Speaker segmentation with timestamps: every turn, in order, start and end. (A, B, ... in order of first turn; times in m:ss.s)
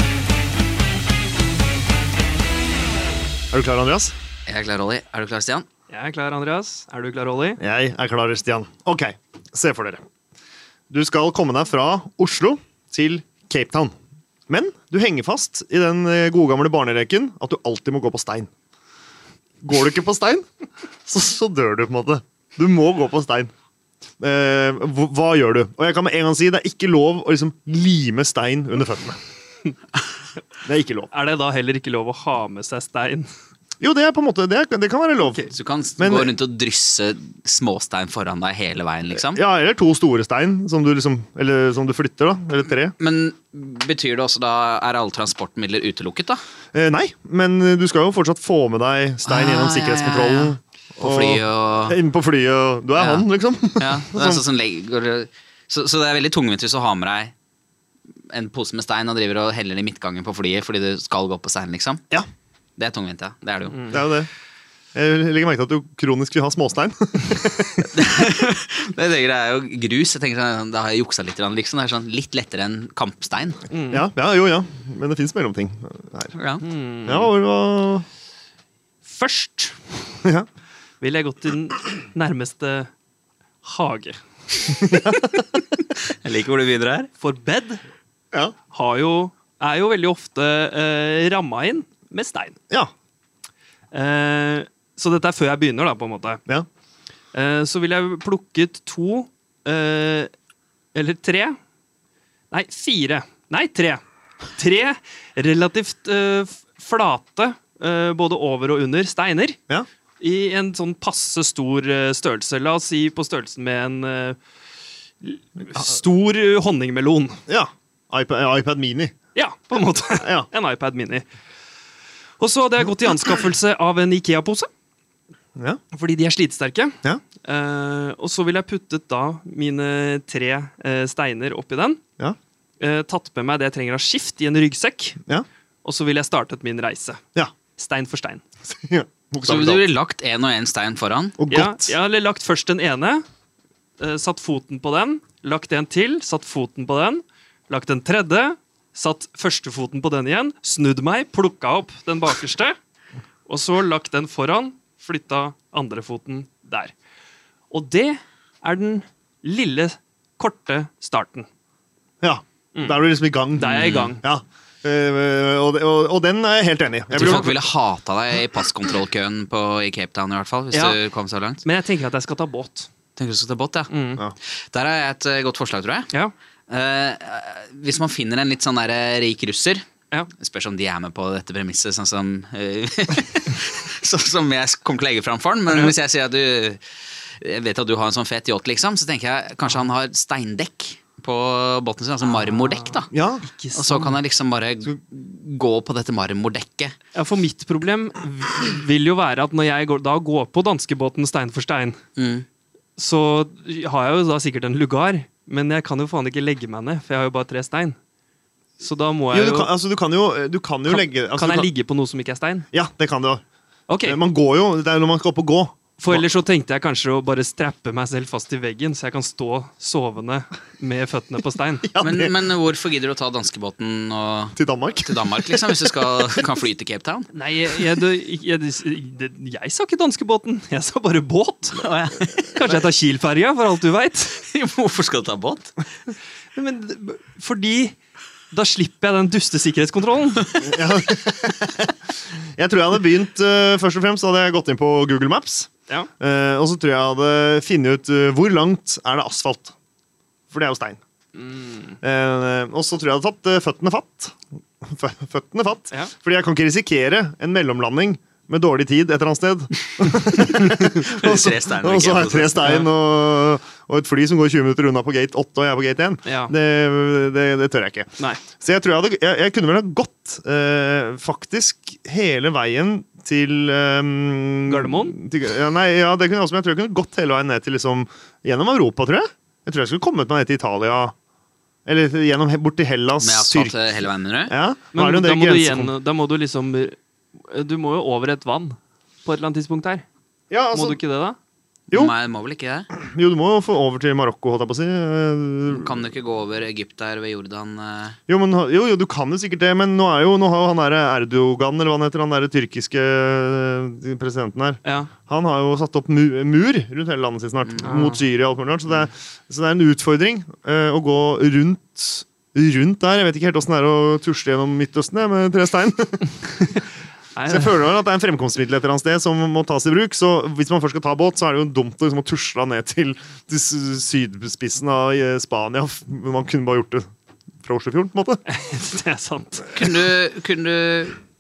0:03.5-0:04.1 A
0:04.5-0:05.7 B
0:05.9-0:07.6 C
0:07.6-0:10.0 A
0:10.9-0:13.9 A
0:14.5-0:18.5 A
0:19.6-0:20.5 A
0:21.1-0:23.5 A
0:24.2-0:29.2 A
0:30.6-0:31.1 A
0:31.1-0:33.3 C
0:33.8-0:36.4 A
0:35.5-0:39.4 B
0:39.2-0:43.0 A
0:43.0-0:46.4 B
0:46.7-0:54.4 A
0:49.3-0:52.0 B
0:53.0-0:53.3 B
0:53.8-0:57.3 B
0:58.3-1:02.0 B
1:02.8-1:03.9 B
1:03.7-1:04.0 C
1:03.9-1:04.3 A
1:05.0-1:07.9 A
1:07.9-1:13.6 B
1:13.7-1:14.1 C
1:13.9-1:16.4 A
1:16.4-1:16.6 B
1:16.6-1:17.3 C
1:17.0-1:18.1 A
1:19.0-1:19.8 C
1:21.0-1:22.9 C
1:23.6-1:24.8 C
1:24.8-1:25.4 A
1:26.0-1:27.1 B
1:27.2-1:27.8 C
1:28.7-1:32.6 C
1:33.9-1:36.4 C
1:37.3-1:40.3 C
1:40.9-1:41.6 C
1:42.5-1:44.0 C
1:44.5-1:49.6 C
1:50.2-1:54.4 C
1:55.2-1:57.4 C
1:57.5-1:59.1 A
1:59.4-2:01.3 C
2:00.2-2:00.5 A
2:02.4-2:04.7 C
2:05.9-2:12.0 C
2:12.8-2:15.2 C
2:15.8-2:17.2 C
2:17.8-2:18.4 C
2:18.7-2:19.9 A
2:19.4-2:21.4 B
2:21.4-2:22.0 A
2:21.5-2:23.2 C
2:24.0-2:32.8 C
2:33.5-2:36.9 C
2:37.7-2:41.5 C
2:42.2-2:47.5 A
2:42.8-2:43.0 C
2:43.6-2:44.2 C
2:43.7-2:44.2 B
2:47.1-2:47.6 C
2:47.2-2:51.6 B
2:50.7-2:51.0 C
2:51.6-2:52.9 C
2:53.2-2:53.9 B
2:53.9-2:54.2 C
2:54.5-2:56.1 B
2:56.7-2:59.8 B
3:00.4-3:06.8 B
3:07.4-3:13.1 B
3:12.4-3:14.2 C
3:13.1-3:13.4 A
3:13.7-3:17.0 B
3:17.1-3:22.0 C
3:22.2-3:22.5 B
3:23.0-3:28.0 C
3:28.8-3:29.7 C
3:29.3-3:31.7 A
3:30.9-3:32.7 C
3:32.7-3:33.4 A
3:33.9-3:34.2 C
3:34.0-3:36.3 A
3:36.0-3:41.9 C
3:41.8-3:42.4 A
3:42.0-3:47.3 B
3:44.6-3:45.8 A
3:47.3-3:51.9 C
3:51.7-3:52.8 B
3:52.5-3:54.4 C
3:54.4-3:55.8 B
3:56.6-3:58.0 C
3:58.5-4:00.5 C
4:00.6-4:01.9 A
4:02.6-4:09.7 A
4:10.5-4:11.0 A
4:11.4-4:12.0 C
4:12.0-4:41.1 A
4:21.0-4:22.6 B
4:22.6-4:22.9 C
4:26.3-4:26.5 C
4:34.7-4:35.2 C
4:41.9-4:43.8 A
4:43.2-4:44.5 B
4:44.5-4:45.9 A
4:44.9-4:50.0 C
4:50.5-4:51.0 A
4:50.7-4:51.4 C
4:51.9-4:52.9 B
4:52.9-4:56.0 A
4:55.7-4:58.2 B
4:58.3-5:16.4 A
5:04.8-5:05.1 C
5:07.8-5:08.2 C
5:17.4-5:17.8 C
5:17.5-5:27.0 A
5:27.6-5:28.4 A
5:28.5-5:29.9 C
5:29.7-5:31.2 B